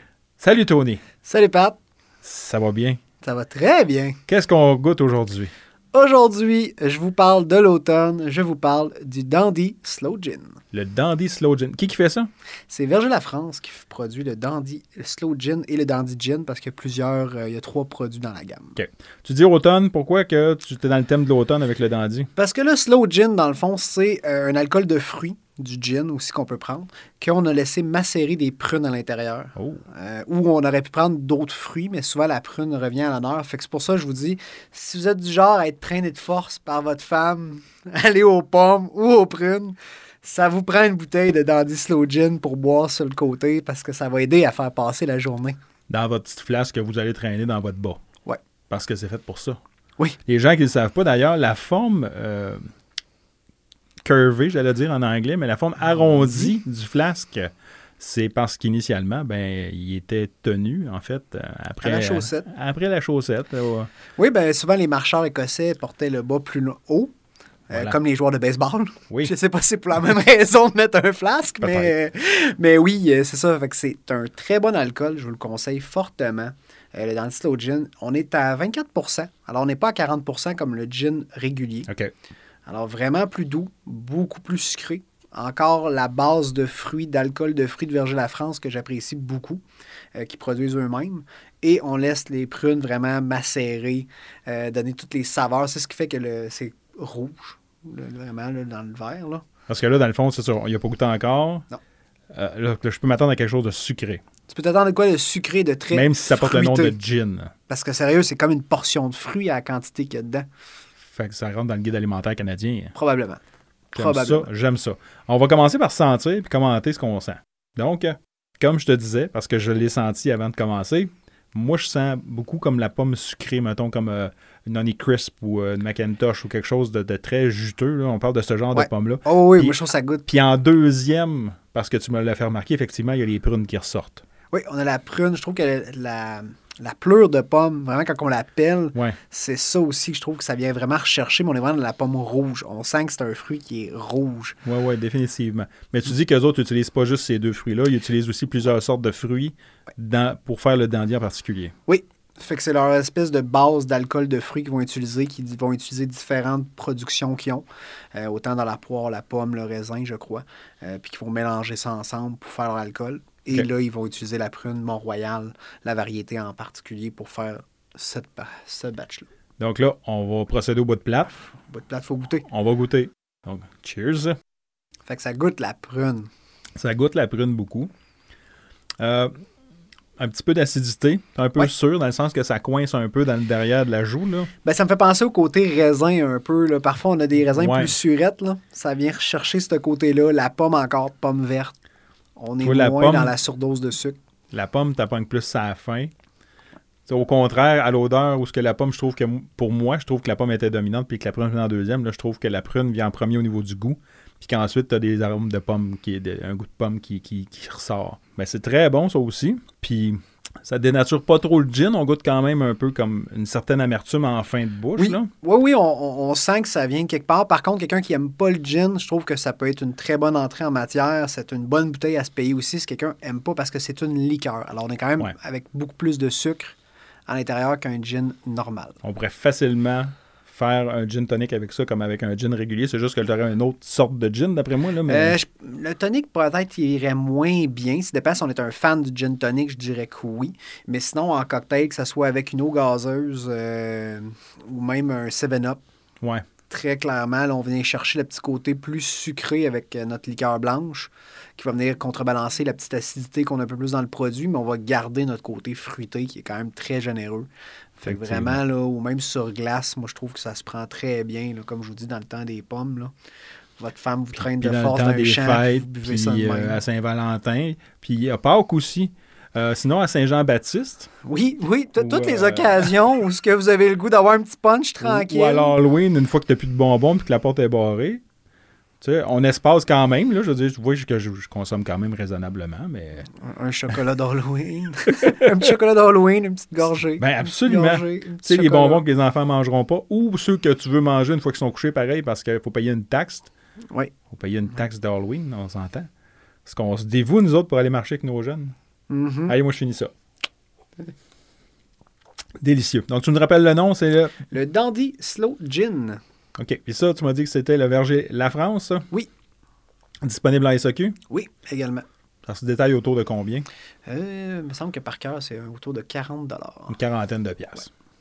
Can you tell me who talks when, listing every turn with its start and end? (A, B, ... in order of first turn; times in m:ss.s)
0:00.4-0:01.0 A
0:01.2-0:01.8 B
0:02.2-0:03.0 A
0:03.2-0:04.2 B
0:04.3-0:05.5 A
0:05.9-0:10.6 B
0:10.7-0:12.3 A
0:12.7-0:18.8 B
0:18.8-0:22.3 A
0:22.4-0:45.6 B
0:29.6-0:29.8 A
0:45.9-0:48.0 A
0:48.7-0:49.6 A
0:50.2-0:52.6 A
0:54.0-1:03.9 A
0:56.0-0:56.5 B
1:01.8-1:02.5 B
1:04.2-1:07.1 B
1:07.7-1:21.9 B
1:07.7-1:08.0 A
1:11.6-1:11.9 A
1:22.6-1:29.6 B
1:30.1-1:39.4 B
1:39.7-1:41.7 A
1:42.3-1:44.2 A
1:44.5-1:47.0 B
1:45.9-1:47.5 A
1:47.7-1:50.4 B
1:51.1-1:52.9 A
1:52.9-1:53.4 B
1:53.9-1:54.5 B
1:53.9-2:14.2 A
2:08.7-2:10.2 B
2:14.5-2:24.6 B
2:24.6-2:31.7 A
2:31.9-2:49.3 B
2:49.6-2:51.3 A
2:51.7-2:52.4 B
2:52.5-2:54.4 A
2:55.1-2:56.3 B
2:56.8-2:57.9 A
2:59.0-2:59.3 A
3:00.2-3:04.5 A
3:04.6-3:11.7 B
3:07.5-3:07.9 A
3:12.4-3:14.2 B
3:12.6-3:13.3 A
3:14.5-3:16.1 A
3:17.1-3:35.3 A
3:35.0-3:46.8 B
3:47.3-3:49.0 B
3:49.0-3:55.4 A
3:55.0-4:05.8 B
4:06.7-4:23.1 B
4:18.0-4:18.6 A
4:23.8-4:26.8 B
4:24.4-4:31.1 A
4:31.2-4:35.7 B
4:32.0-4:33.0 A
4:35.0-4:38.2 A
4:39.0-4:43.3 A
4:43.4-4:49.0 B
4:45.2-4:45.6 A
4:47.2-4:53.5 A
4:54.3-4:56.1 A
4:56.6-4:58.7 A
4:59.1-4:59.5 B
4:59.5-5:00.1 A
5:02.6-5:04.4 A
5:04.5-5:06.2 B
5:06.6-5:09.1 A
5:10.2-5:11.2 A
5:11.3-5:12.0 B
5:12.4-5:13.7 A
5:14.0-5:17.0 B
5:16.9-5:17.9 A